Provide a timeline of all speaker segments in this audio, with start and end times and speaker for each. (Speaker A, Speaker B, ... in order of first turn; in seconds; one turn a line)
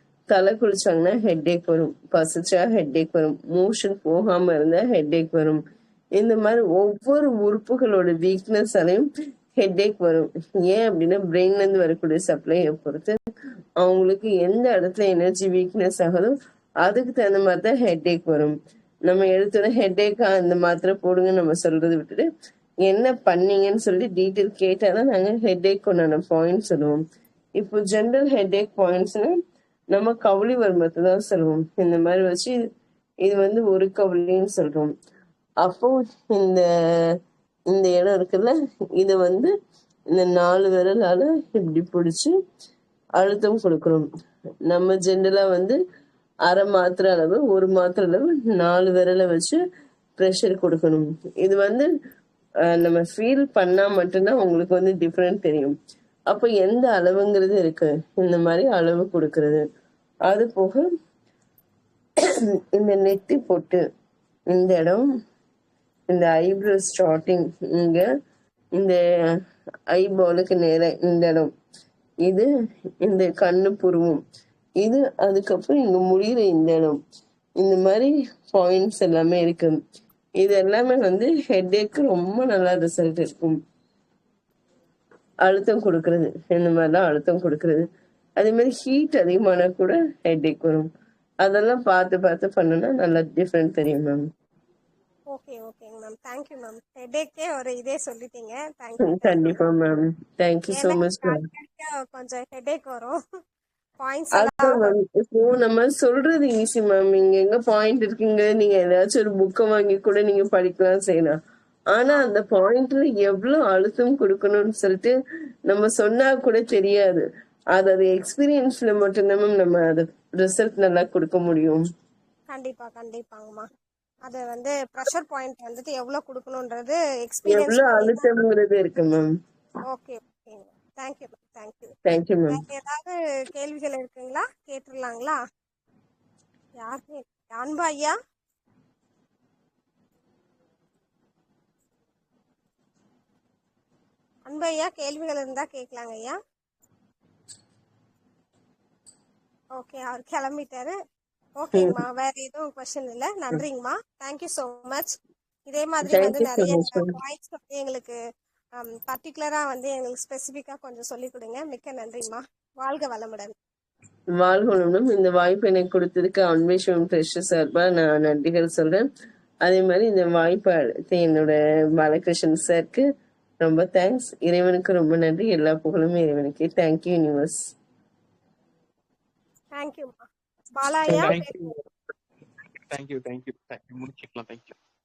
Speaker A: 0.3-5.6
Speaker A: 6.2-9.1
Speaker A: 9.6-13.2
Speaker A: 13.8-18.5
Speaker A: 19.1-22.2
Speaker A: 22.8-27.0
Speaker A: 27.6-29.4
Speaker A: 29.9-32.6
Speaker A: 33.2-34.9
Speaker A: 35.6-36.6
Speaker A: 37.7-39.5
Speaker A: 40.1-42.3
Speaker A: 43.2-44.1
Speaker A: 44.7-45.8
Speaker A: 46.5-49.6
Speaker A: 50.2-51.9
Speaker A: 52.7-55.8
Speaker A: 56.3-59.6
Speaker A: 60.3-60.9
Speaker A: 62.7-63.8
Speaker A: 64.5-65.0
Speaker A: 66.1-68.0
Speaker A: 69.9-71.5
Speaker A: 73.0-74.2
Speaker A: 74.8-77.0
Speaker A: 77.6-79.8
Speaker A: 80.4-83.6
Speaker A: 85.4-87.8
Speaker A: 88.4-90.9
Speaker A: 91.4-94.2
Speaker B: 95.3-99.4
Speaker A: 99.0-101.4
Speaker B: 100.7-103.2
Speaker B: 104.0-104.9
Speaker A: 104.3-111.3
Speaker A: 111.9-115.1
Speaker A: 115.7-117.2
Speaker A: 117.7-121.8
Speaker B: 122.5-123.6
Speaker B: 124.2-128.2
Speaker A: 127.5-129.3
Speaker B: 129.9-131.9
Speaker A: 132.1-132.6
Speaker B: 132.5-135.4
Speaker B: 136.8-138.1
Speaker B: 144.4-146.3
Speaker B: 149.8-150.9
Speaker B: 151.6-158.2
Speaker A: 156.0-157.1
Speaker B: 158.8-163.5
Speaker A: 164.4-169.1
Speaker A: 169.6-173.0
Speaker A: 173.6-177.7
Speaker B: 179.8-180.2
Speaker B: 180.7-181.5
Speaker C: 181.1-181.9
Speaker C: 182.9-184.7